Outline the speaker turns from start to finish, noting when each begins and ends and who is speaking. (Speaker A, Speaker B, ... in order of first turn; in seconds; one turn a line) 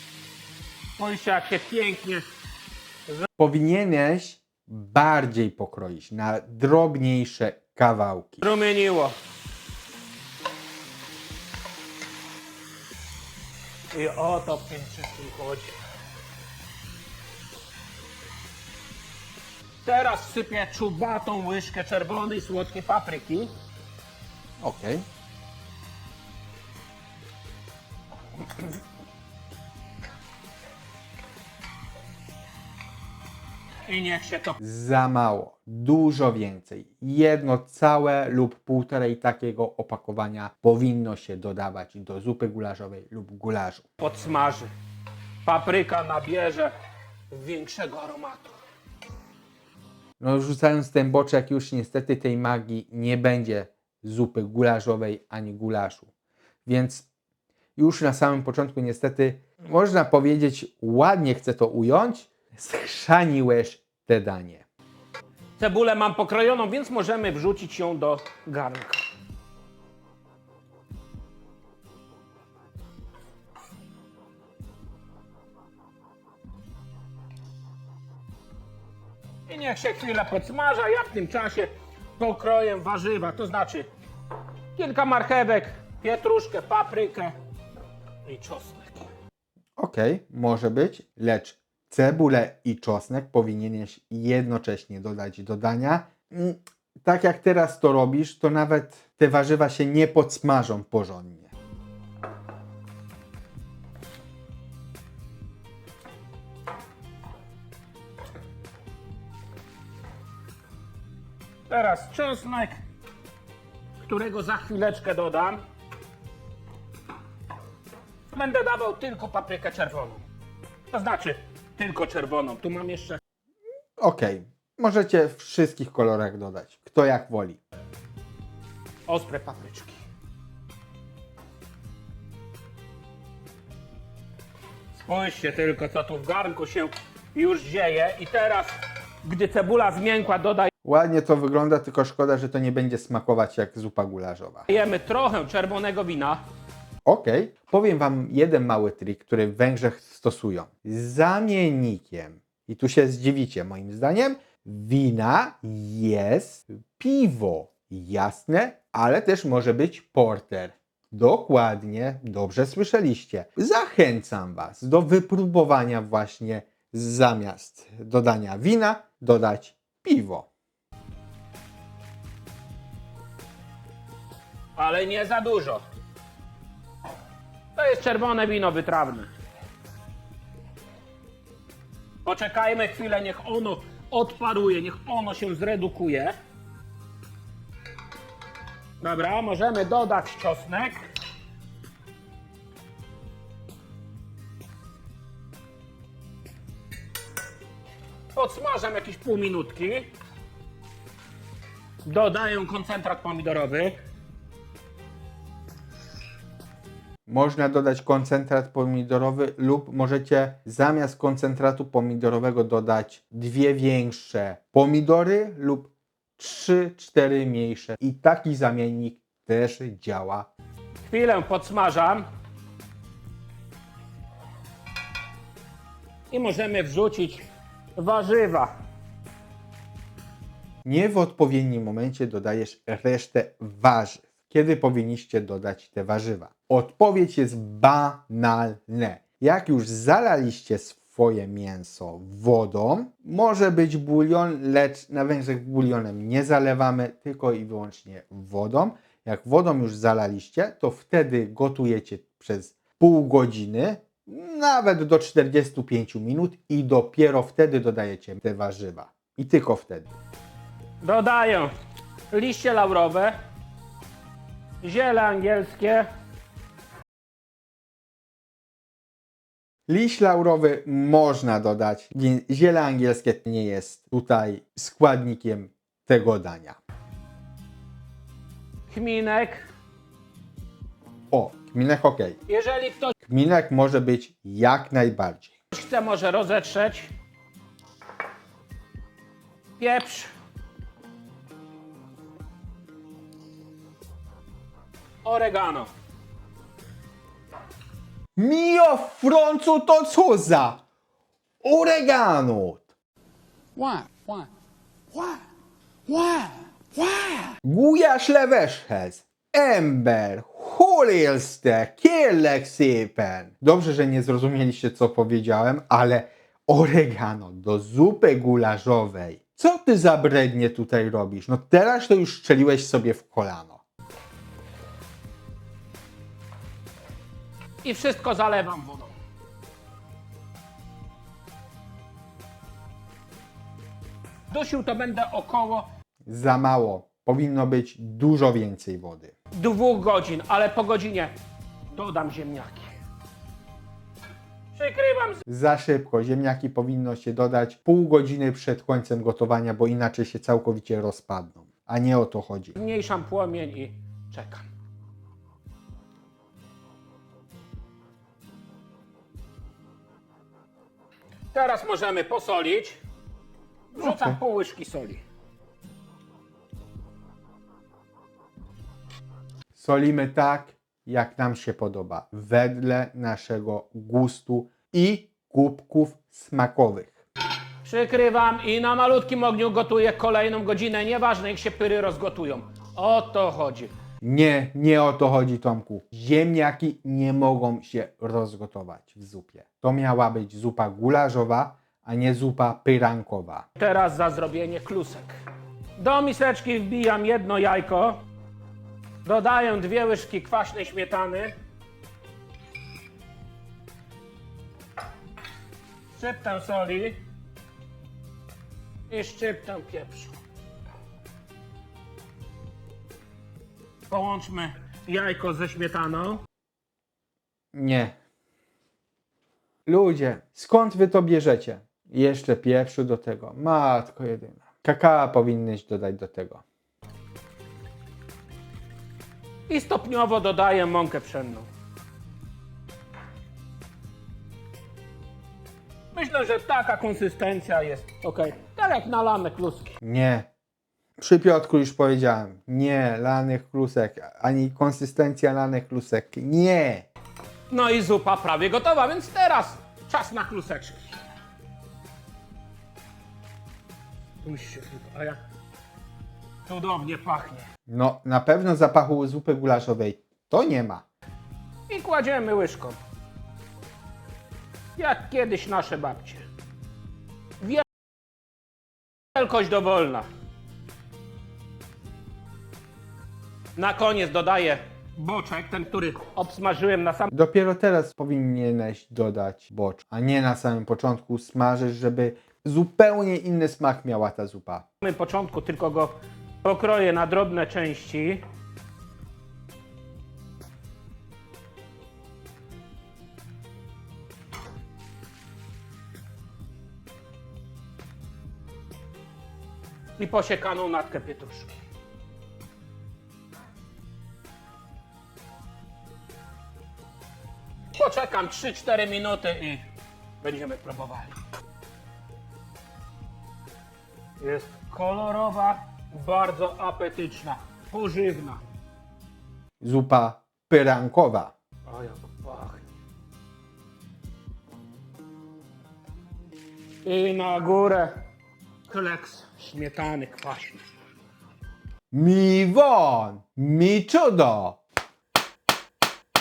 Speaker A: 1.0-2.2
Speaker B: 3.4-8.4
Speaker A: 8.4-9.2
Speaker A: 13.9-15.7
Speaker A: 19.8-23.5
Speaker B: 24.6-25.0
Speaker A: 33.9-34.6
Speaker B: 34.6-43.9
Speaker A: 44.0-44.7
Speaker A: 45.4-46.7
Speaker A: 47.3-48.5
Speaker B: 50.2-56.1
Speaker B: 56.6-57.1
Speaker B: 57.8-64.7
Speaker A: 65.6-69.0
Speaker A: 79.5-83.9
Speaker A: 84.8-87.3
Speaker A: 88.2-89.0
Speaker B: 89.8-101.5
Speaker A: 111.7-112.8
Speaker A: 114.0-115.6
Speaker A: 118.3-120.2
Speaker A: 120.9-123.2
Speaker B: 124.0-127.6
Speaker A: 129.1-130.0
Speaker A: 135.0-140.7
Speaker B: 140.8-144.7
Speaker A: 144.7-146.4
Speaker B: 147.0-170.5
Speaker A: 174.8-175.8
Speaker A: 177.8-179.3
Speaker A: 182.2-186.3
Speaker A: 189.0-191.0
Speaker A: 198.3-200.1
Speaker A: 202.0-203.9
Speaker B: 207.3-220.5
Speaker A: 221.0-222.2
Speaker A: 226.3-227.4
Speaker A: 227.9-228.7
Speaker B: 230.8-260.1
Speaker A: 261.0-261.7
Speaker A: 262.3-263.3
Speaker A: 264.8-266.1
Speaker B: 269.9-276.8
Speaker A: 278.9-279.7
Speaker B: 281.3-282.4
Speaker A: 282.5-283.1
Speaker B: 283.2-285.5
Speaker A: 285.7-287.1
Speaker A: 289.8-290.3
Speaker A: 295.2-295.9
Speaker B: 298.4-300.8
Speaker B: 301.6-302.9
Speaker C: 303.8-304.5
Speaker C: 306.1-307.5
Speaker B: 307.6-323.8
Speaker A: 327.8-329.1
Speaker A: 334.5-335.9
Speaker B: 336.3-339.3
Speaker A: 339.5-341.3
Speaker A: 341.9-342.9
Speaker A: 344.7-345.4
Speaker B: 345.5-352.8
Speaker A: 352.8-354.7
Speaker A: 361.5-363.0
Speaker A: 363.9-365.2
Speaker B: 364.0-364.4
Speaker B: 369.7-377.2
Speaker A: 377.8-383.9
Speaker B: 384.2-393.6
Speaker A: 393.8-395.3
Speaker A: 396.0-398.2
Speaker A: 399.2-401.5
Speaker A: 406.1-407.2
Speaker A: 409.1-410.3
Speaker A: 414.1-416.4
Speaker B: 417.7-418.1
Speaker B: 419.9-426.6
Speaker A: 429.7-431.7
Speaker A: 436.1-439.9
Speaker B: 440.0-440.5
Speaker B: 441.2-447.1
Speaker A: 447.7-451.1
Speaker A: 454.4-455.4
Speaker A: 456.6-457.7
Speaker B: 457.9-461.0
Speaker A: 461.9-463.0
Speaker A: 464.9-466.4
Speaker A: 467.6-467.8
Speaker A: 469.3-470.2
Speaker A: 473.8-477.3
Speaker B: 477.3-484.8
Speaker A: 485.0-488.4
Speaker A: 500.2-501.7
Speaker A: 507.9-509.8
Speaker A: 510.4-511.4
Speaker A: 514.4-518.6
Speaker B: 519.8-521.5
Speaker A: 521.9-522.8
Speaker A: 527.0-528.2
Speaker A: 528.9-530.8
Speaker B: 532.1-534.8